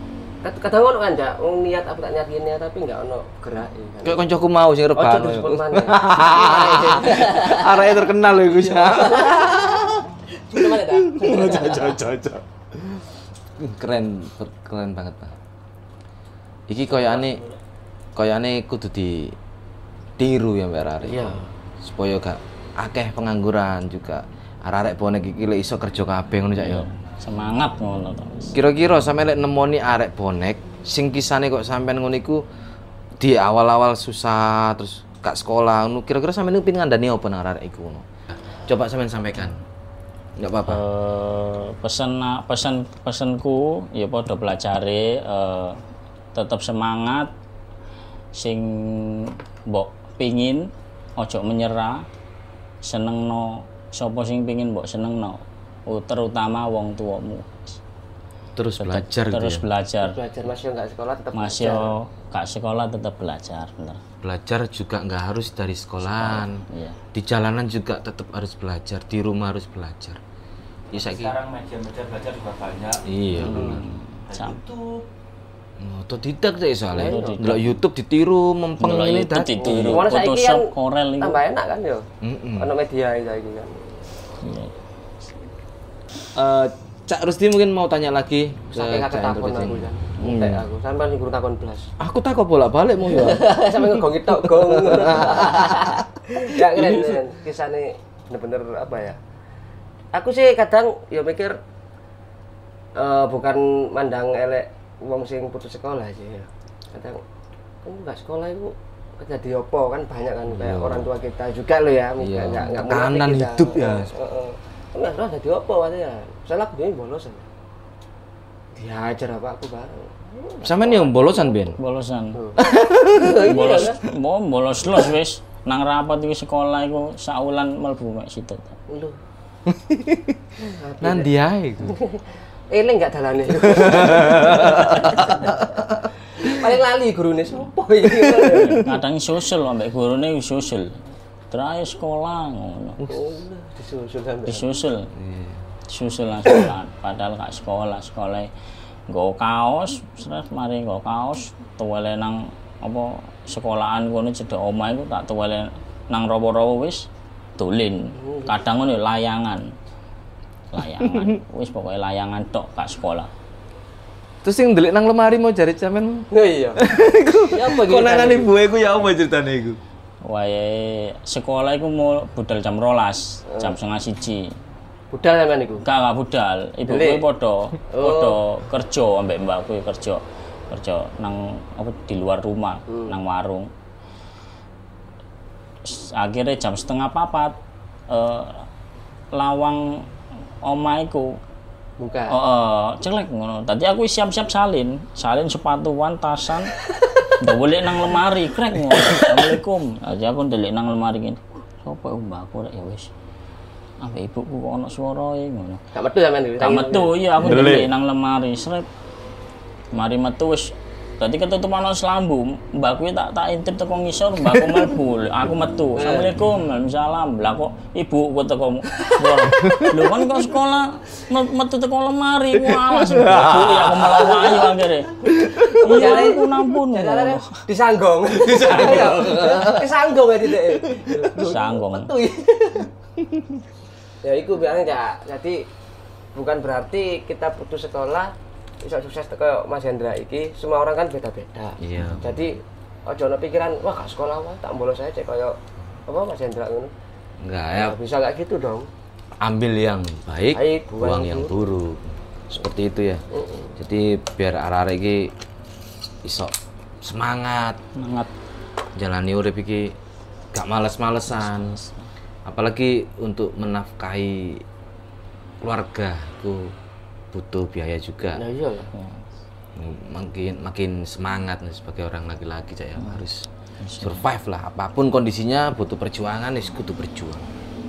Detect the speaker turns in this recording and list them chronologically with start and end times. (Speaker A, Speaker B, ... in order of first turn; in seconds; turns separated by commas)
Speaker A: 0.4-4.2, Speaker B: 4.0-10.1, Speaker A: 4.9-9.7, Speaker A: 10.4-12.0, Speaker B: 10.6-13.0, Speaker B: 13.6-15.3, Speaker B: 16.7-17.4, Speaker C: 16.9-17.6, Speaker B: 18.1-19.4, Speaker B: 20.2-26.9, Speaker A: 21.0-21.5, Speaker D: 26.6-28.5, Speaker B: 28.5-32.4, Speaker B: 33.2-38.0, Speaker B: 38.7-39.6, Speaker B: 40.4-40.8, Speaker D: 40.7-45.8, Speaker D: 46.3-47.3, Speaker D: 48.3-52.0, Speaker D: 52.8-57.8, Speaker B: 58.5-59.6, Speaker D: 58.8-60.2, Speaker A: 60.0-61.9, Speaker D: 61.3-64.0, Speaker B: 64.2-70.2, Speaker D: 66.0-67.0, Speaker B: 70.9-71.3, Speaker C: 70.9-73.0, Speaker B: 73.0-73.8, Speaker D: 73.4-74.6, Speaker A: 73.5-73.8, Speaker C: 74.3-75.0, Speaker B: 75.8-80.0, Speaker A: 76.9-77.5, Speaker D: 76.9-77.8, Speaker D: 78.8-81.4, Speaker A: 79.6-82.0, Speaker B: 82.2-82.7, Speaker A: 82.6-83.9, Speaker D: 84.4-84.7, Speaker B: 86.3-90.6, Speaker A: 88.7-91.9, Speaker B: 92.0-97.1, Speaker A: 93.1-99.2, Speaker A: 100.1-101.6, Speaker A: 102.9-107.2, Speaker A: 107.8-117.5, Speaker B: 110.5-111.1, Speaker B: 112.2-114.1, Speaker A: 118.7-121.7, Speaker B: 120.6-121.8, Speaker D: 121.8-122.4, Speaker A: 122.3-124.0, Speaker B: 122.6-123.5, Speaker D: 123.2-128.8, Speaker A: 128.9-129.2, Speaker B: 129.7-130.4, Speaker A: 130.6-131.3, Speaker B: 131.0-132.0, Speaker A: 131.8-135.5, Speaker B: 133.6-136.1, Speaker A: 136.4-138.8, Speaker B: 138.2-138.8, Speaker D: 138.6-141.0, Speaker D: 141.5-143.0, Speaker A: 143.1-144.7, Speaker D: 144.5-145.1, Speaker B: 145.1-145.6, Speaker D: 145.9-148.5, Speaker D: 149.1-157.1, Speaker D: 157.6-159.7, Speaker A: 158.2-158.5, Speaker D: 160.7-163.3, Speaker B: 164.4-169.8, Speaker A: 166.3-166.8, Speaker A: 167.4-168.5, Speaker D: 170.2-174.5, Speaker A: 173.5-173.8, Speaker A: 175.1-175.8, Speaker D: 175.8-183.7, Speaker A: 176.8-177.2, Speaker A: 177.9-178.4, Speaker D: 185.8-187.5, Speaker D: 188.1-188.7, Speaker D: 189.3-190.1, Speaker D: 190.6-191.4, Speaker A: 192.0-192.4, Speaker D: 192.3-196.8, Speaker D: 197.3-203.1, Speaker B: 199.0-199.2, Speaker D: 204.0-205.8, Speaker A: 205.9-207.2, Speaker D: 206.6-208.9, Speaker B: 207.4-207.9, Speaker D: 209.9-227.6, Speaker A: 215.9-216.3, Speaker B: 219.6-219.9, Speaker B: 222.7-224.5, Speaker B: 225.2-226.0, Speaker A: 225.3-232.9, Speaker B: 228.3-229.8, Speaker B: 230.9-231.3, Speaker D: 231.3-232.1, Speaker A: 234.2-235.7, Speaker A: 236.3-245.6, Speaker B: 241.8-242.4, Speaker A: 246.1-246.9, Speaker B: 247.4-248.0, Speaker A: 247.7-248.9, Speaker B: 249.4-253.2, Speaker A: 250.5-251.5, Speaker A: 253.3-253.7, Speaker B: 253.8-255.3, Speaker B: 256.2-257.8, Speaker D: 257.9-258.3, Speaker B: 258.9-259.9, Speaker B: 260.5-261.8, Speaker D: 261.3-262.0, Speaker B: 262.4-264.6, Speaker B: 265.6-266.7, Speaker B: 267.3-268.4, Speaker A: 268.3-268.9, Speaker D: 268.9-269.2, Speaker B: 269.8-273.4, Speaker D: 273.8-274.2, Speaker B: 274.0-277.5